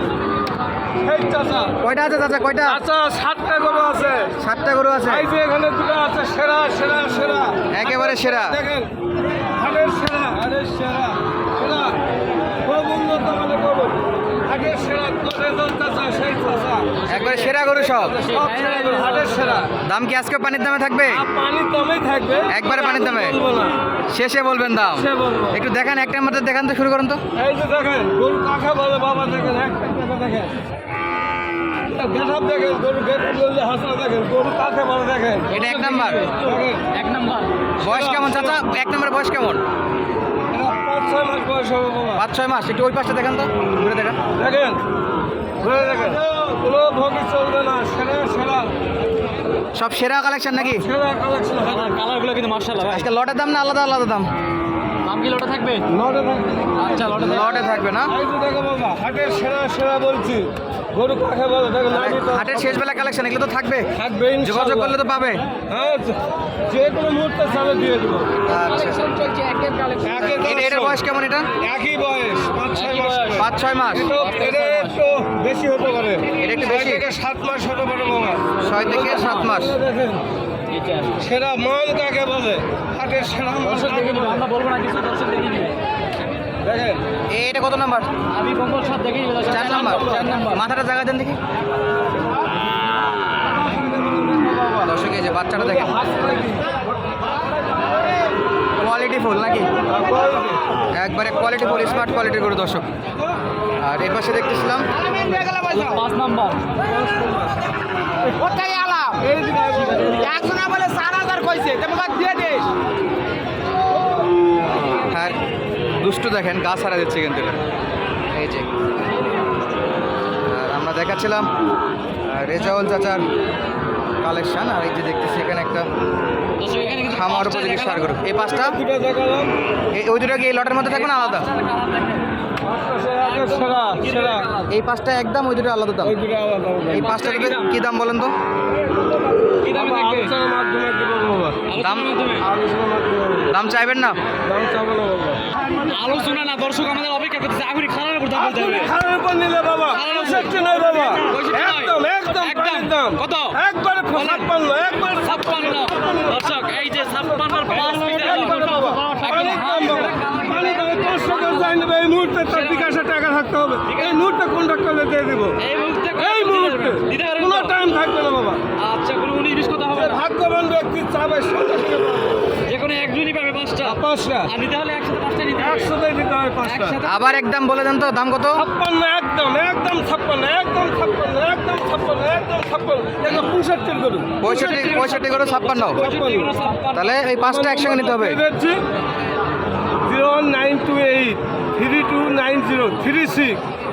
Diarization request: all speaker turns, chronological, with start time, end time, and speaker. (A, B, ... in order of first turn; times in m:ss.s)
0:01.0-0:01.8 A
0:01.8-0:02.8 B
0:02.6-0:04.4 A
0:04.4-0:05.3 B
0:05.1-0:08.9 A
0:07.7-0:08.6 B
0:09.5-0:12.0 A
0:12.6-0:17.0 A
0:17.0-0:19.6 C
0:17.1-0:18.2 B
0:17.8-0:19.7 A
0:19.8-0:21.2 B
0:21.1-0:23.8 A
0:22.5-0:23.4 B
0:24.1-0:27.2 B
0:25.0-0:25.6 A
0:27.4-0:30.5 A
0:31.8-0:35.6 A
0:35.5-0:36.3 B
0:35.5-0:37.5 C
0:36.4-0:36.9 A
0:37.8-0:39.6 B
0:37.8-0:38.6 A
0:40.5-0:42.2 A
0:42.2-0:44.2 B
0:44.4-0:44.8 A
0:45.6-0:48.7 A
0:49.8-0:50.9 B
0:50.6-0:52.0 A
0:51.6-0:53.1 C
0:52.9-0:54.3 B
0:55.0-0:55.9 C
0:55.9-0:57.0 A
0:56.8-0:57.6 C
0:57.1-0:58.1 B
0:58.1-1:02.7 A
1:01.9-1:03.9 B
1:03.9-1:05.0 A
1:04.4-1:05.4 B
1:05.7-1:08.3 A
1:08.4-1:09.0 B
1:08.7-1:10.3 C
1:10.0-1:11.0 A
1:10.4-1:11.5 B
1:11.6-1:20.2 A
1:12.7-1:13.5 C
1:13.4-1:14.1 B
1:14.0-1:15.0 C
1:16.4-1:17.1 B
1:18.6-1:19.8 B
1:18.7-1:19.5 C
1:20.7-1:21.2 C
1:21.2-1:24.4 A
1:23.6-1:25.8 C
1:26.6-1:27.0 A
1:27.3-1:28.1 B
1:28.3-1:30.6 C
1:29.5-1:31.4 B
1:34.1-1:34.8 A
1:34.8-1:36.0 B
1:35.6-1:36.8 A
1:38.8-1:39.7 B
1:39.9-1:40.6 A
1:40.9-1:42.9 B
1:43.8-1:45.0 B
1:45.2-1:46.0 D
1:45.4-1:46.6 C
1:48.4-1:49.2 D
1:49.2-1:50.4 A
1:50.2-1:52.7 D
1:55.1-1:55.4 B
1:56.0-1:57.6 B
1:58.3-1:58.7 B
2:00.4-2:01.5 B
2:02.2-2:03.2 B
2:04.2-2:05.9 B
2:06.6-2:08.2 C
2:07.1-2:08.8 B
2:08.3-2:09.5 A
2:09.9-2:11.5 B
2:10.9-2:12.3 C
2:12.6-2:14.5 A
2:13.2-2:14.7 C
2:14.7-2:16.2 B
2:16.0-2:17.2 A
2:16.9-2:18.3 B
2:17.0-2:17.7 C
2:19.6-2:20.3 C
2:19.7-2:21.6 A
2:21.7-2:22.5 C
2:21.8-2:22.1 B
2:22.4-2:23.5 A
2:23.5-2:24.2 B
2:24.4-2:25.4 A
2:25.7-2:28.9 C
2:28.3-2:36.3 A
2:29.9-2:33.6 C
2:34.1-2:41.8 C
2:37.6-2:45.6 A
2:42.4-2:43.0 C
2:43.9-2:44.2 C
2:45.6-2:47.8 C
2:46.1-2:48.6 A
2:48.8-2:50.2 C
2:49.9-2:52.5 A
2:52.7-2:56.0 C
2:53.8-2:54.5 A
2:55.6-2:57.0 A
2:56.6-2:57.2 C
2:57.0-2:58.7 B
2:58.6-3:04.4 A
3:04.4-3:06.0 B
3:04.4-3:07.2 C
3:05.9-3:06.5 A
3:06.9-3:08.4 B
3:07.4-3:08.8 A
3:10.0-3:13.6 A